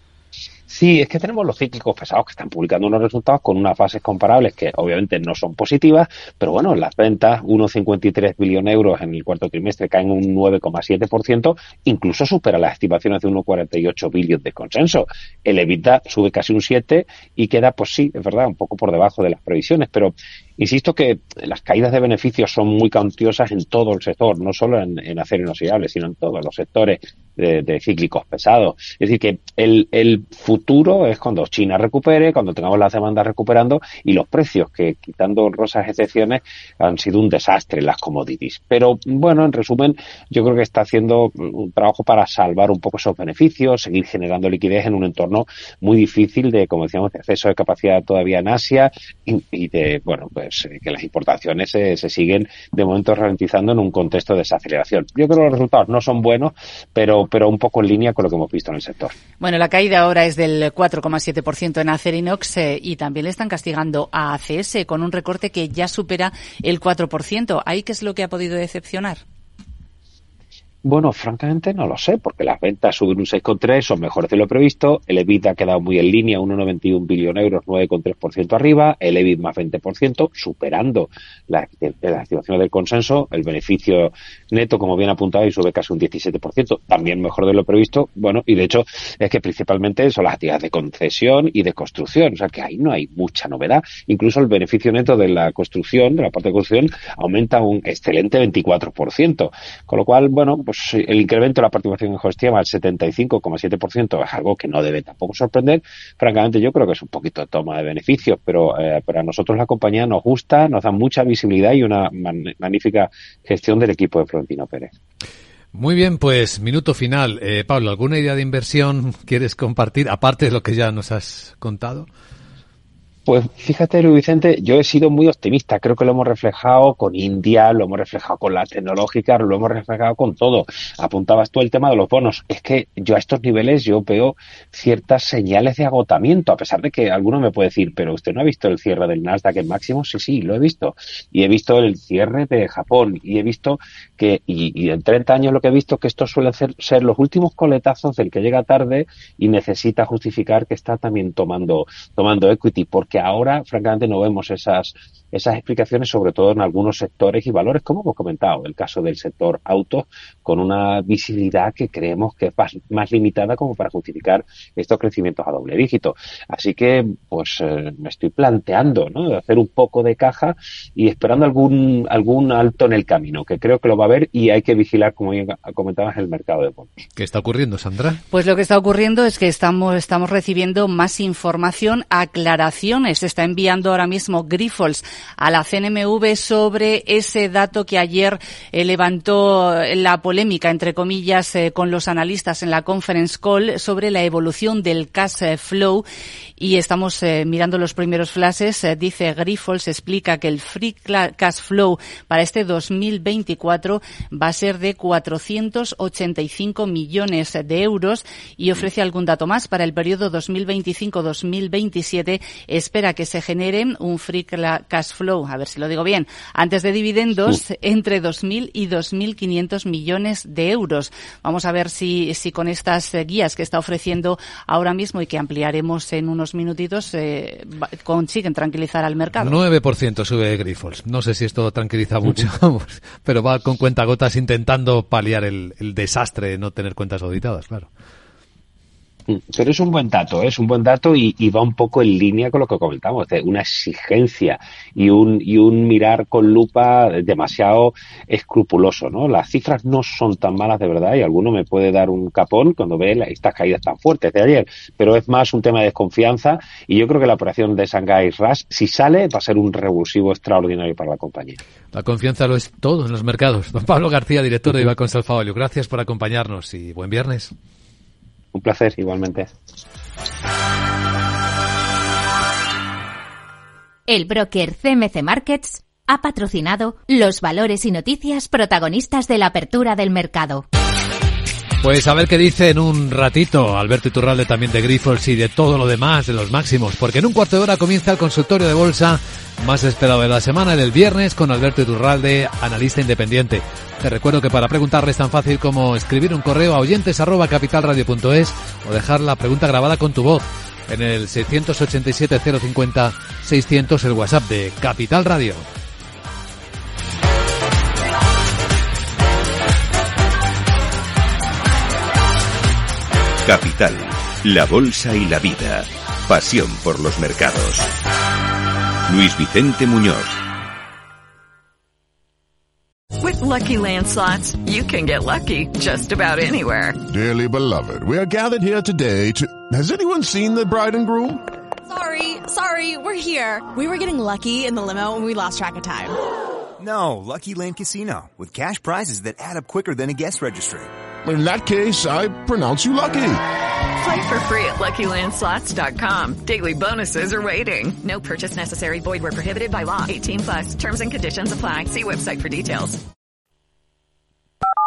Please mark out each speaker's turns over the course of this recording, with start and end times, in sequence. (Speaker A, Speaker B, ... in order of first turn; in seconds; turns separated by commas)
Speaker A: 0.7-59.1, Speaker B: 59.4-69.2, Speaker A: 70.8-114.9, Speaker C: 115.7-122.1, Speaker A: 123.3-176.9, Speaker C: 177.2-178.2, Speaker B: 178.3-196.1, Speaker B: 196.6-229.6, Speaker C: 229.4-237.9, Speaker A: 239.3-261.6, Speaker C: 261.9-267.5, Speaker A: 268.5-269.5, Speaker D: 274.1-280.6, Speaker C: 281.8-305.6, Speaker E: 313.4-317.9, Speaker E: 319.1-320.4, Speaker F: 323.2-327.0, Speaker G: 327.1-331.4, Speaker H: 331.9-336.1, Speaker I: 336.8-340.9, Speaker G: 341.2-343.4, Speaker F: 344.0-353.0